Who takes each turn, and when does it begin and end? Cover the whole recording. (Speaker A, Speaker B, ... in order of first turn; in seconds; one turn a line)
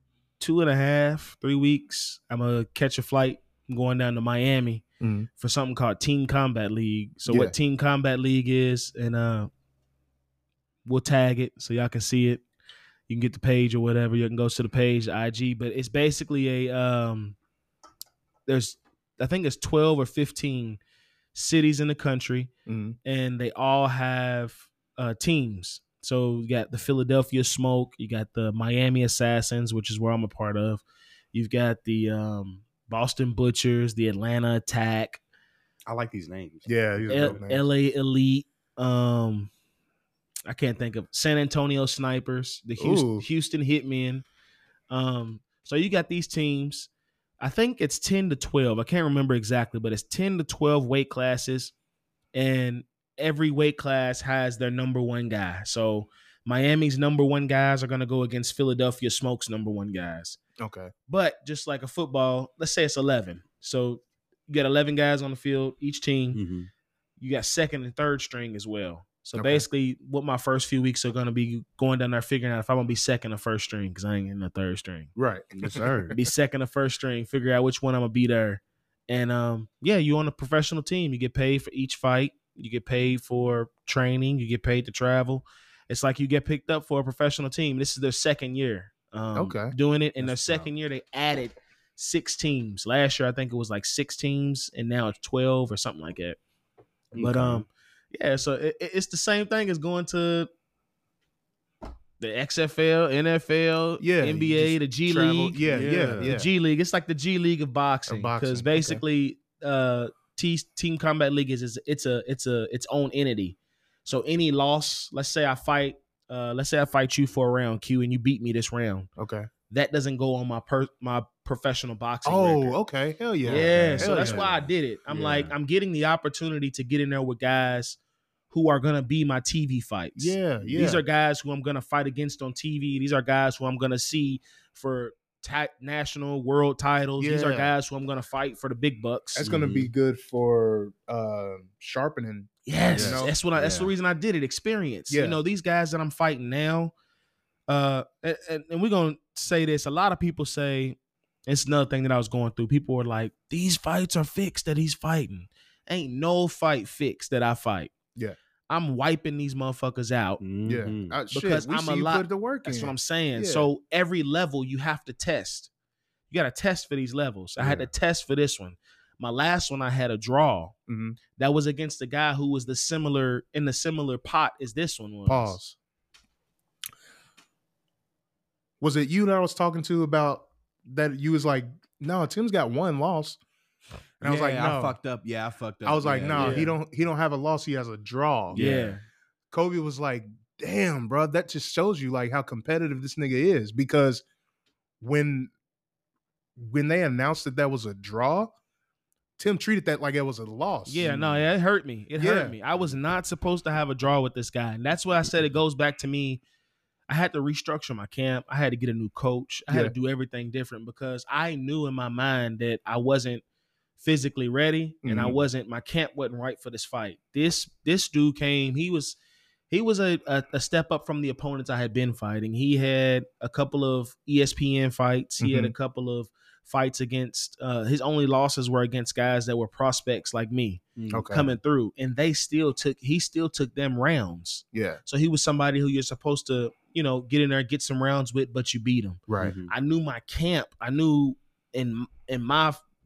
Speaker A: 0.4-4.8
Speaker B: 5.0-5.3
Speaker A: 5.4-9.5
Speaker B: 7.2-7.5
Speaker A: 10.8-12.4
Speaker A: 13.1-17.4
Speaker A: 18.4-20.8
Speaker A: 21.3-22.5
Speaker B: 22.7-23.0
Speaker A: 23.0-35.2
Speaker C: 35.9-37.4
Speaker B: 36.7-37.6
Speaker A: 37.1-39.5
Speaker A: 40.5-44.2
Speaker B: 42.8-43.2
Speaker A: 44.9-46.9
Speaker A: 47.4-51.7
Speaker A: 52.3-60.4
Speaker B: 60.6-60.9
Speaker A: 61.1-66.4
Speaker C: 66.3-66.7
Speaker A: 67.2-75.1
Speaker B: 69.4-69.7
Speaker B: 75.2-76.0
Speaker C: 75.5-76.1
Speaker A: 76.1-96.4
Speaker B: 89.3-89.7
Speaker C: 90.2-90.7
Speaker C: 97.1-97.6
Speaker A: 97.1-100.5
Speaker A: 102.2-119.1
Speaker B: 104.0-106.5
Speaker C: 105.7-106.3
Speaker B: 108.1-109.0
Speaker B: 119.2-119.5
Speaker A: 119.7-122.8
Speaker B: 122.2-124.5
Speaker C: 123.4-125.5
Speaker A: 123.5-128.0
Speaker A: 128.5-139.5
Speaker B: 130.2-131.0
Speaker B: 137.2-137.7
Speaker B: 139.3-143.3
Speaker C: 139.4-139.9
Speaker A: 142.7-146.9
Speaker C: 142.9-143.9
Speaker B: 145.1-145.4
Speaker A: 147.7-157.9
Speaker A: 158.7-160.4
Speaker C: 160.4-161.2
Speaker B: 160.6-163.7
Speaker A: 161.3-165.7
Speaker A: 166.3-170.7
Speaker B: 167.6-167.8
Speaker B: 170.9-171.2
Speaker A: 171.3-175.6
Speaker B: 175.3-175.8
Speaker B: 178.8-183.4
Speaker B: 184.2-184.9
Speaker C: 184.2-186.7
Speaker B: 185.8-188.7
Speaker A: 186.3-186.7
Speaker C: 188.5-188.9
Speaker A: 188.5-189.0
Speaker B: 189.5-194.2
Speaker B: 195.0-195.5
Speaker B: 196.6-198.5
Speaker B: 199.4-201.1
Speaker A: 200.8-206.4
Speaker C: 201.0-201.4
Speaker B: 202.2-202.5
Speaker A: 207.1-213.4
Speaker A: 214.0-219.2
Speaker B: 215.0-215.4
Speaker A: 219.7-242.8
Speaker B: 225.4-225.7
Speaker C: 230.9-231.2
Speaker B: 231.1-231.5
Speaker B: 234.7-235.0
Speaker B: 239.3-239.5
Speaker C: 239.4-239.7